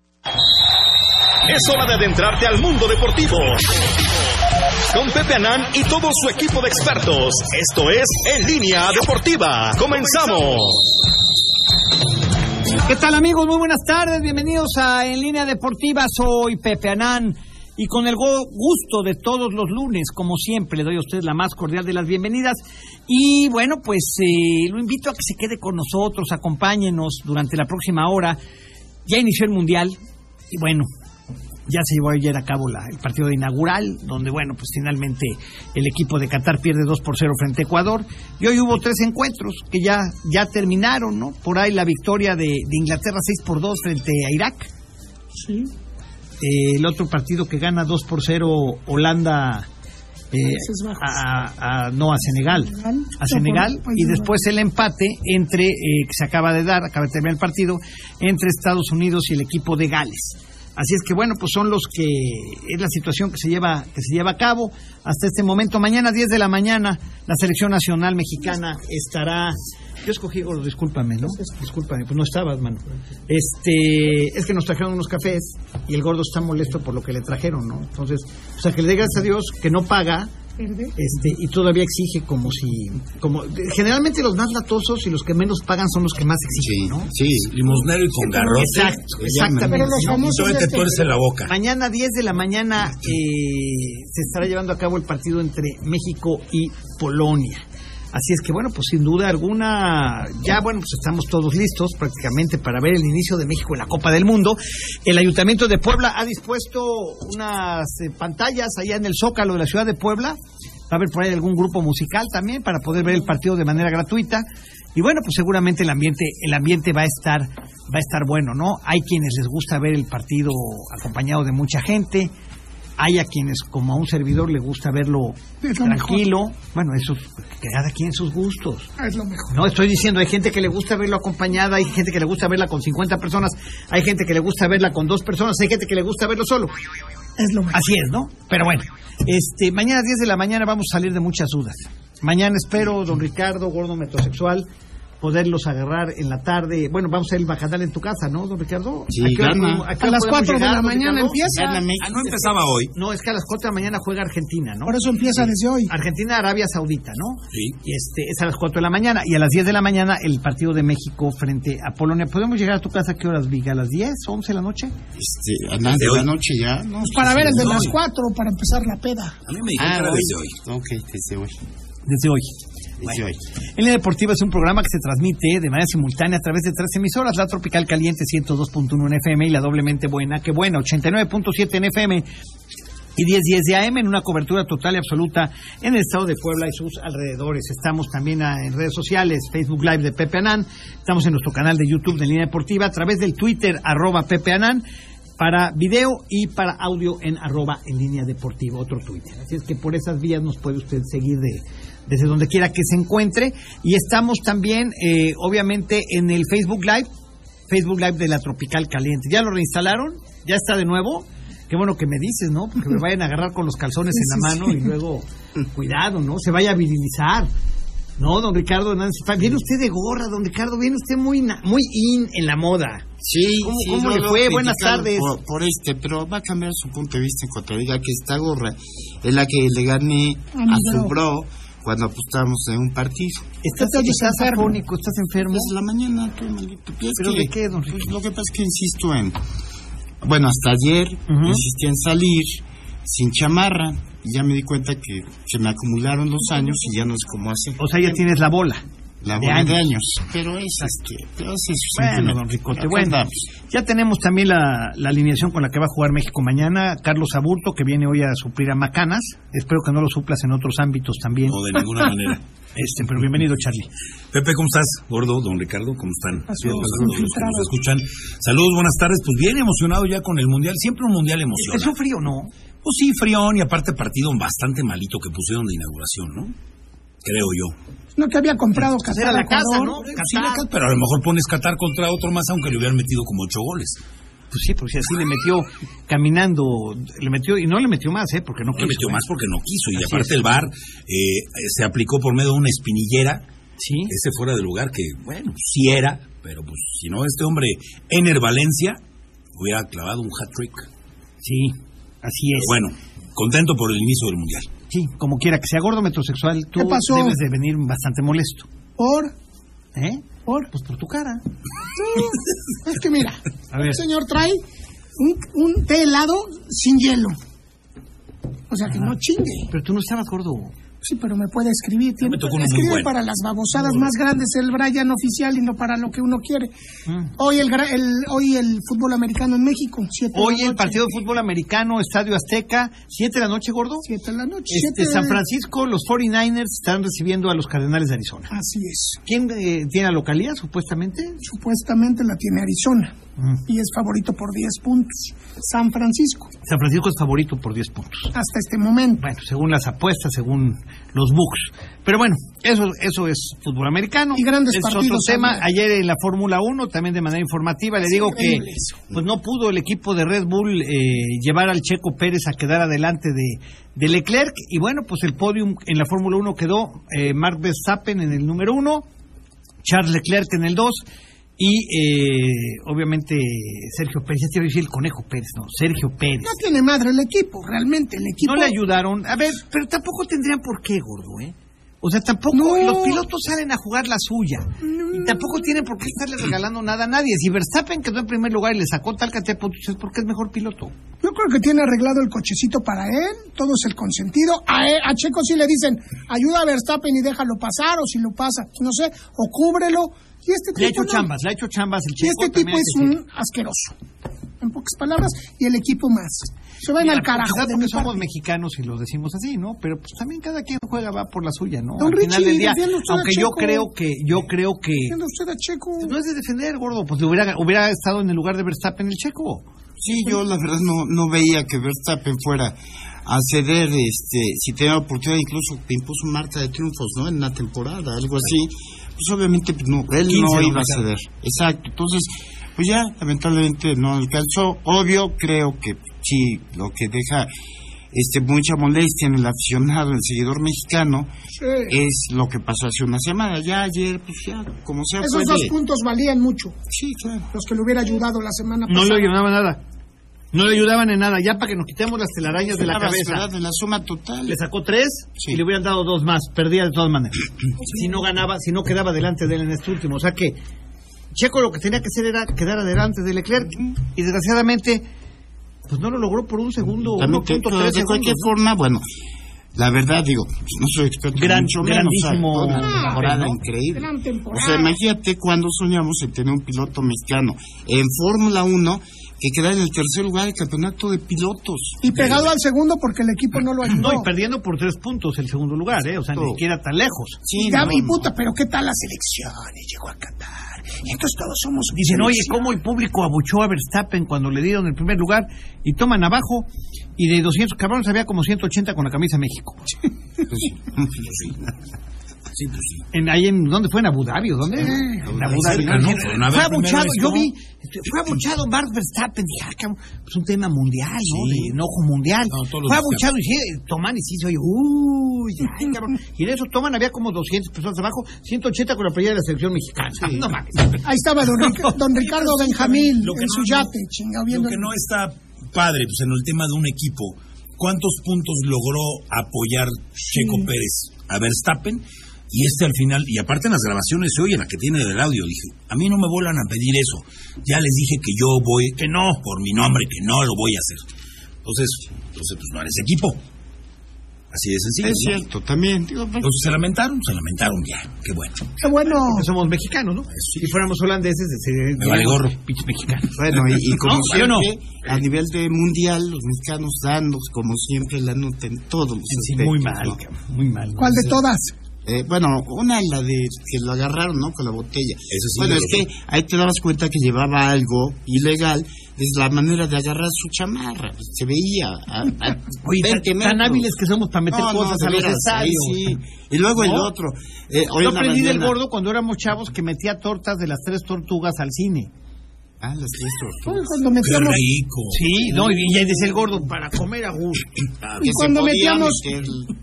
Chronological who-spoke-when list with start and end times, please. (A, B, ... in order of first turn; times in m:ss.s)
0:01.5-0:03.8 A
0:04.9-0:10.9 A
0:12.8-0:28.4 B
0:29.0-0:30.0 B
0:30.5-0:30.9 B
0:31.7-0:44.7 B
0:45.3-0:45.7 C
0:46.4-0:49.7 B
0:50.3-1:20.3 B
0:50.6-0:51.2 C
0:52.7-0:54.4 C
1:20.6-1:20.9 C
1:20.9-1:27.1 B
1:26.6-1:27.5 D
1:27.5-1:28.9 E
1:28.2-1:30.2 B
1:28.6-1:30.1 D
1:29.7-1:31.1 C
1:30.1-1:31.5 E
1:31.4-2:02.3 B
2:03.0-2:08.9 B
2:05.6-2:06.2 C
2:09.0-2:09.5 C
2:09.5-2:16.7 B
2:17.4-2:17.8 C
2:17.7-2:24.7 B
2:25.2-2:31.6 B
2:29.1-2:29.9 D
2:30.0-2:31.8 C
2:31.5-2:32.1 D
2:32.0-2:32.9 E
2:32.9-2:45.0 B
2:34.9-2:35.9 C
2:37.5-2:37.8 E
2:45.2-2:47.9 D
2:45.9-2:46.3 E
2:47.0-2:49.4 C
2:47.5-2:47.9 E
2:49.5-2:50.6 E
2:49.8-2:51.6 D
2:52.1-2:52.5 B
2:53.0-2:53.4 D
2:53.8-3:02.2 B
3:03.2-3:14.8 B
3:15.4-3:27.1 B
3:27.7-3:37.5 B
3:34.2-3:34.7 C
3:38.2-3:43.1 B
3:43.2-3:53.5 D
3:43.6-3:45.3 B
3:50.6-3:51.1 C
3:53.6-3:55.7 B
3:53.8-3:54.8 C
3:55.4-3:59.4 D
3:57.2-3:58.1 B
4:00.2-4:08.2 D
4:01.3-4:01.6 B
4:07.8-4:08.8 B
4:09.2-4:13.5 D
4:09.4-4:09.8 B
4:11.9-4:21.6 B
4:21.4-4:22.4 E
4:22.8-4:23.9 B
4:24.3-4:31.9 E
4:26.5-4:27.7 C
4:31.6-4:32.5 B
4:32.8-4:36.5 E
4:37.2-4:37.8 E
4:38.2-4:40.0 C
4:39.0-4:40.7 B
4:40.1-4:44.0 E
4:44.5-4:49.2 B
4:48.8-4:53.4 E
4:49.9-4:50.4 B
4:53.8-4:54.1 B
4:54.1-4:59.0 E
4:59.5-5:00.9 E
5:01.4-5:02.8 B
5:02.6-5:04.7 E
5:04.9-5:08.7 B
5:06.8-5:07.4 C
5:09.0-5:09.3 C
5:09.9-5:11.4 B
5:12.0-5:14.6 C
5:13.7-5:14.0 B
5:15.2-5:17.4 C
5:18.7-5:19.7 C
5:18.9-5:19.1 B
5:19.7-5:20.7 B
5:21.0-5:26.7 C
5:22.2-5:23.1 E
5:27.1-5:27.3 B
5:27.4-5:31.0 C
5:30.3-5:34.1 B
5:34.1-5:35.4 C
5:34.7-5:38.5 B
5:38.5-5:39.2 C
5:39.2-5:41.4 B
5:41.4-5:43.1 C
5:43.4-5:43.6 B
5:43.7-5:46.5 C
5:46.6-5:48.3 B
5:48.3-5:49.2 C
5:49.2-6:09.1 B
5:54.3-5:55.6 C
5:58.0-5:59.0 C
6:09.8-6:11.0 B
6:11.6-6:16.5 B
6:16.4-6:18.8 C
6:18.4-6:30.9 B
6:22.5-6:23.2 C
6:24.8-6:25.7 C
6:31.2-6:41.3 C
6:40.8-6:43.2 B
6:42.2-6:44.0 C
6:44.6-6:48.2 C
6:47.0-6:55.2 B
6:52.0-6:53.9 C
6:55.1-6:56.2 C
6:56.0-6:59.6 B
7:00.0-7:17.5 D
7:10.3-7:10.9 B
7:18.1-7:21.3 D
7:21.6-7:21.9 C
7:21.9-7:25.8 D
7:25.2-7:26.8 C
7:26.9-7:27.5 D
7:27.5-7:29.3 C
7:28.9-7:29.8 B
7:30.5-7:33.4 B
7:32.7-7:34.6 D
7:34.4-7:40.6 B
7:41.3-7:45.1 B
7:45.9-7:48.5 B
7:47.0-7:49.0 D
7:49.8-8:02.4 D
7:51.4-7:53.6 B
7:52.9-7:53.1 C
7:53.9-7:54.9 C
8:02.0-8:04.3 C
8:04.0-8:07.4 B
8:06.3-8:06.6 D
8:07.4-8:08.3 D
8:07.6-8:12.6 C
8:12.0-8:19.9 B
8:20.5-8:21.5 D
8:22.5-8:23.0 E
8:23.1-8:41.1 B
8:25.3-8:26.2 D
8:25.5-8:27.5 E
8:31.3-8:31.7 E
8:32.5-8:33.3 E
8:40.2-8:40.5 D
8:41.0-8:44.8 C
8:41.7-8:42.9 B
8:42.7-8:43.9 E
8:44.5-9:01.0 E
8:50.4-8:50.7 C
9:01.6-9:03.4 E
9:04.5-9:05.4 E
9:05.0-9:06.7 D
9:06.4-9:08.6 E
9:08.8-9:09.5 C
9:09.3-9:13.4 B
9:10.3-9:10.7 E
9:12.0-9:12.5 E
9:13.4-9:20.2 D
9:13.9-9:14.7 B
9:19.3-9:21.0 B
9:21.0-9:21.4 D
9:21.0-9:21.7 C
9:22.1-9:33.9 D
9:25.3-9:26.0 E
9:32.8-9:36.2 B
9:34.5-9:38.8 D
9:36.8-9:37.1 B
9:38.0-9:42.1 B
9:42.8-9:44.1 D
9:43.7-9:44.6 C
9:44.2-9:45.7 E
9:45.1-9:47.7 B
9:48.2-9:49.7 D
9:48.2-9:49.2 C